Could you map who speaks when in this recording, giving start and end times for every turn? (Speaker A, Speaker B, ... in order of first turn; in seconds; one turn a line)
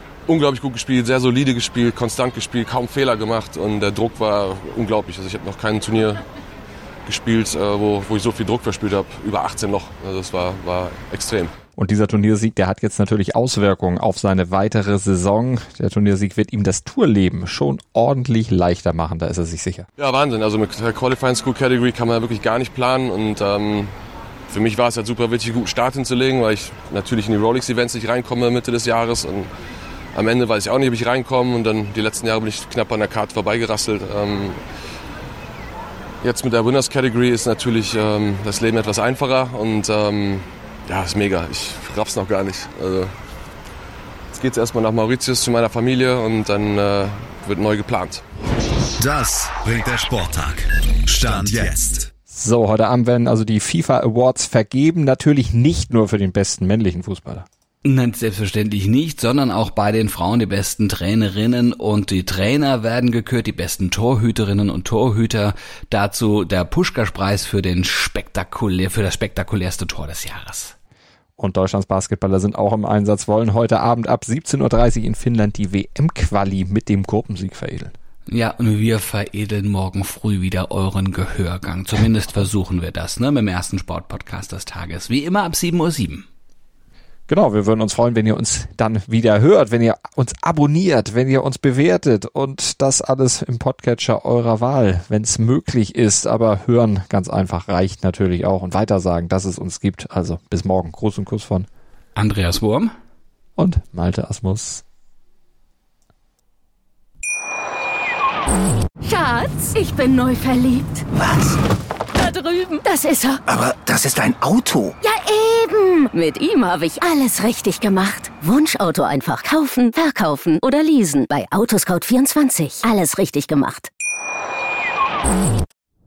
Speaker A: 0.3-6.2
Speaker A: 7.1-11.5
Speaker B: 11.8-19.9
Speaker A: 20.0-23.9
Speaker A: 24.5-29.5
Speaker A: 30.1-34.6
Speaker A: 36.2-43.1
Speaker A: 44.3-48.2
Speaker C: 49.0-52.1
Speaker B: 52.3-57.5
Speaker D: 57.9-70.8
Speaker B: 71.4-77.9
Speaker D: 78.3-86.3
Speaker B: 87.3-101.7
Speaker D: 102.2-102.9
Speaker B: 103.6-104.8
Speaker E: 109.0-111.1
Speaker F: 111.2-111.6
Speaker E: 112.2-113.4
Speaker F: 113.5-115.0
Speaker E: 115.0-123.9